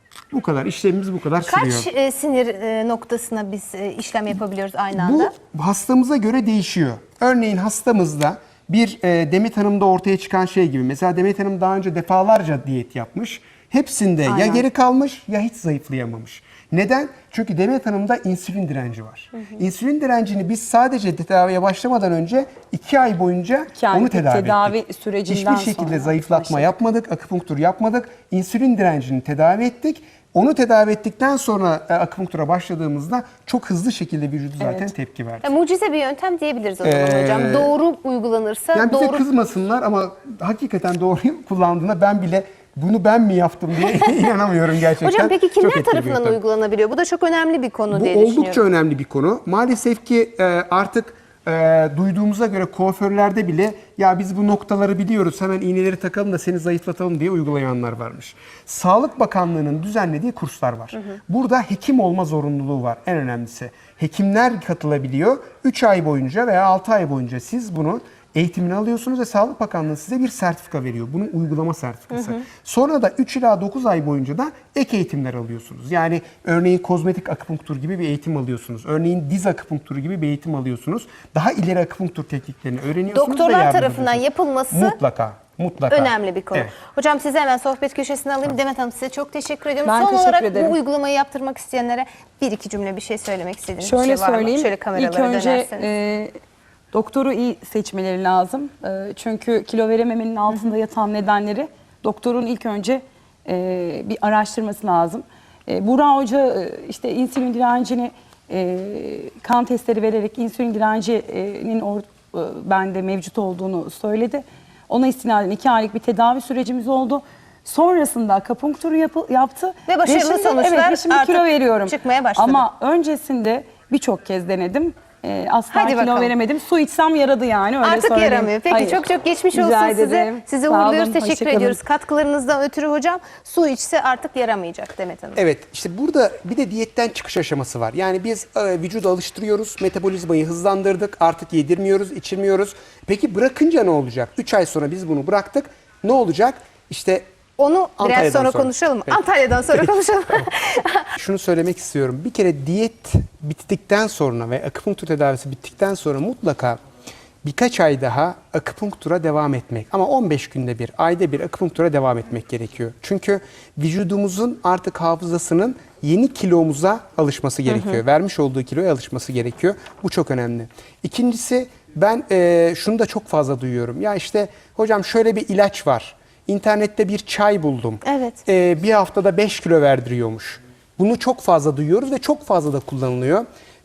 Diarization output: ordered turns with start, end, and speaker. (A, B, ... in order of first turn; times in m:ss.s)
0:00.3-0:01.9 A
0:01.4-0:05.3 B
0:04.9-0:35.5 A
0:14.3-0:14.6 C
0:23.8-0:26.7 C
0:34.6-0:34.9 C
0:35.4-0:39.2 B
0:36.8-0:37.8 A
0:38.8-0:46.4 A
0:43.8-0:44.3 B
0:45.0-0:48.6 B
0:47.9-1:26.7 A
1:23.1-1:25.0 B
1:25.9-1:35.9 B
1:29.8-1:30.8 C
1:33.8-1:36.3 C
1:36.9-2:11.8 C
1:59.9-2:02.7 B
2:05.7-2:06.4 B
2:07.8-2:15.4 B
2:15.4-2:27.2 A
2:27.6-2:31.1 B
2:28.0-2:30.5 A
2:31.2-2:36.8 A
2:37.4-3:03.5 A
2:47.7-2:48.0 B
2:58.0-2:58.4 B